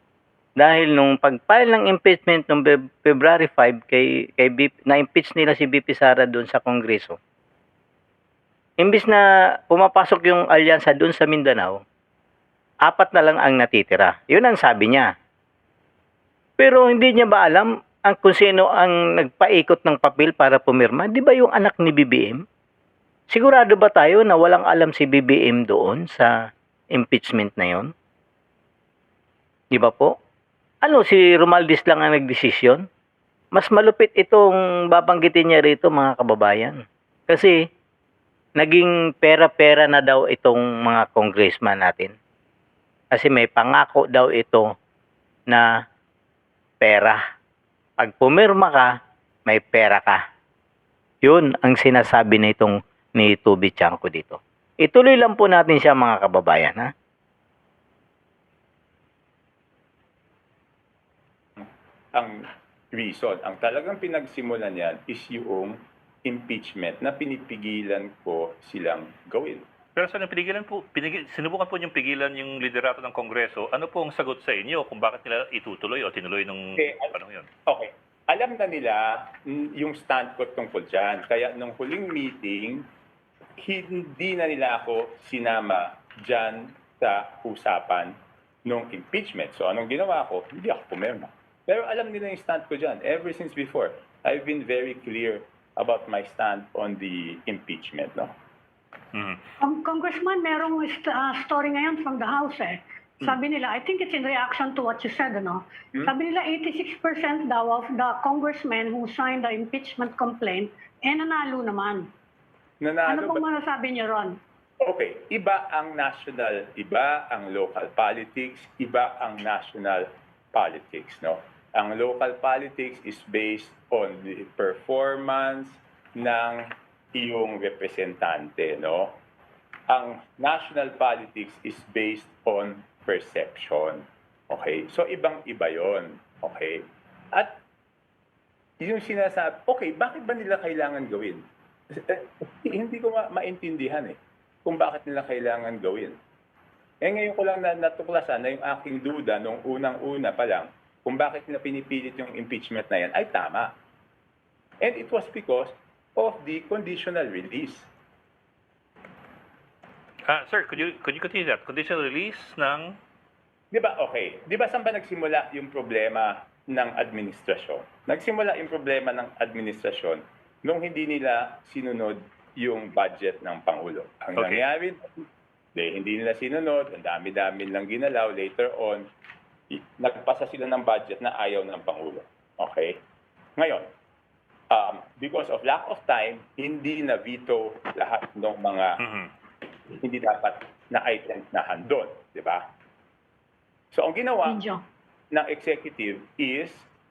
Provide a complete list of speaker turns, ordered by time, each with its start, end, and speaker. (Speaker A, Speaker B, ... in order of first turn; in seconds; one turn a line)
Speaker A: 0.6-7.2
Speaker A: 8.8-11.8
Speaker A: 12.8-15.1
Speaker A: 16.6-22.4
Speaker A: 23.3-26.3
Speaker A: 26.9-27.9
Speaker A: 29.7-30.1
Speaker A: 30.8-32.8
Speaker A: 33.5-37.6
Speaker A: 38.6-42.1
Speaker A: 43.1-44.7
Speaker A: 46.8-47.2
Speaker A: 48.0-48.9
Speaker A: 49.5-50.2
Speaker A: 51.2-56.9
Speaker B: 61.6-62.3
Speaker B: 62.9-69.7
Speaker C: 70.0-77.5
Speaker B: 76.8-77.1
Speaker B: 77.7-82.9
Speaker B: 83.6-98.3
Speaker C: 99.1-99.4
Speaker D: 99.6-112.1
Speaker B: 112.8-113.5
Speaker D: 113.1-114.4
Speaker B: 114.8-126.6
Speaker B: 127.1-129.2
Speaker B: 129.9-136.8
Speaker B: 138.8-146.2
Speaker B: 147.0-153.7
Speaker B: 154.8-157.9
Speaker C: 160.3-163.0
Speaker B: 163.7-175.0
Speaker C: 174.3-174.6
Speaker B: 175.7-179.0
Speaker B: 179.7-183.0
Speaker B: 183.6-183.9
Speaker B: 184.7-188.9
Speaker C: 189.0-189.3
Speaker B: 190.0-192.7
Speaker B: 193.9-194.7
Speaker D: 194.4-194.8
Speaker B: 195.3-196.9